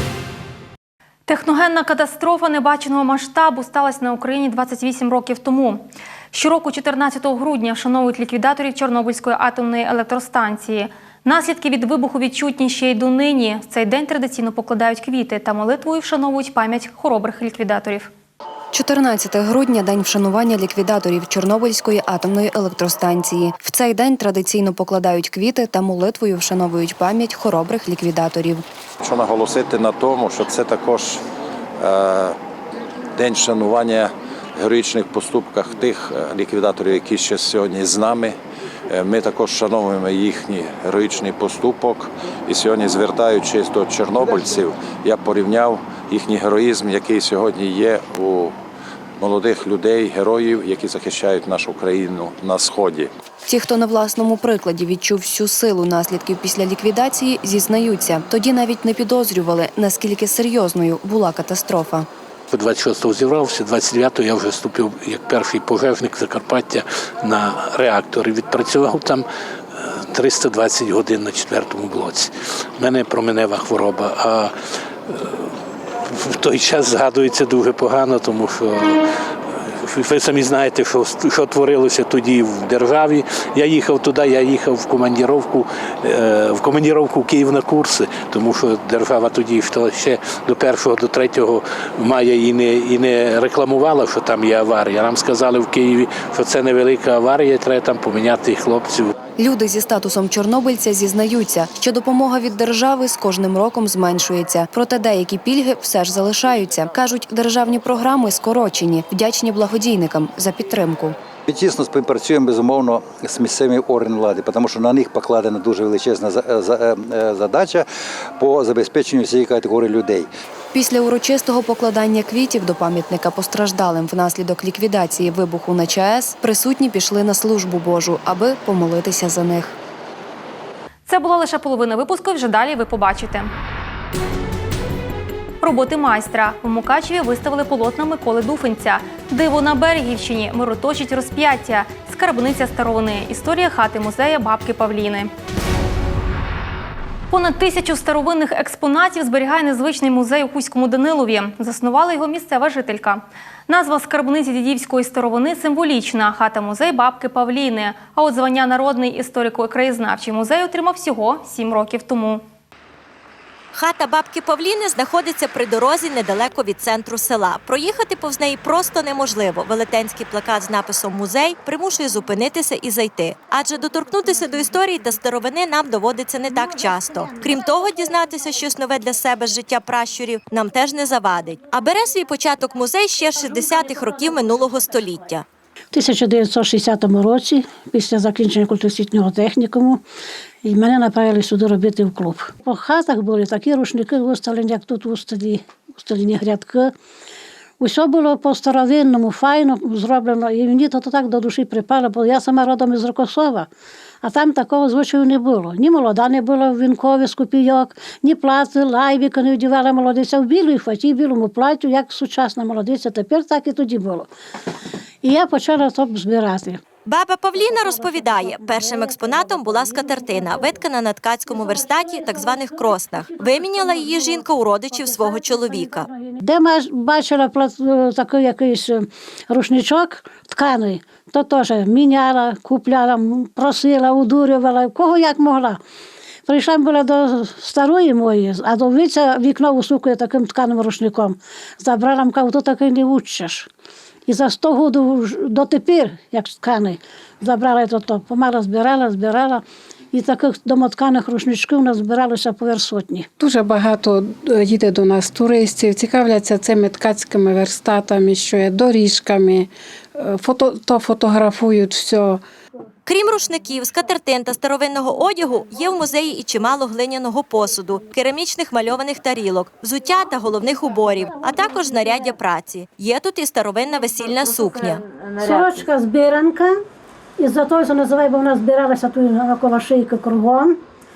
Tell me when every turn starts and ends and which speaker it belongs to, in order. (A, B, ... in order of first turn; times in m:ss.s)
0:01.3-0:18.1 A
0:18.7-0:28.6 B
0:29.0-0:31.2 C
0:31.8-0:32.4 C
0:33.2-0:38.4 C
0:38.9-0:48.6 C
0:49.2-0:53.1 C
0:53.4-1:02.1 B
1:02.5-1:14.5 D
1:15.1-1:19.0 D
1:19.5-1:39.1 D
1:39.4-1:51.1 B
1:51.5-1:57.8 E
1:58.4-2:00.3 E
2:00.7-2:09.8 B
2:11.1-2:13.5 A
2:15.6-2:25.3 A
2:27.3-2:42.4 A
2:43.7-3:05.4 F
3:05.9-3:10.0 G
3:10.6-3:16.9 G
3:17.8-3:23.7 G
3:24.2-3:34.3 G
3:35.2-3:36.8 G
3:37.0-3:46.1 F
3:37.6-3:40.8 G
3:41.5-3:55.8 G
3:56.5-4:03.7 G
4:04.3-4:13.3 G
4:13.4-4:22.4 H
4:23.0-4:35.0 F
4:31.6-4:32.0 G
4:35.4-4:36.8 G
4:37.4-4:40.8 G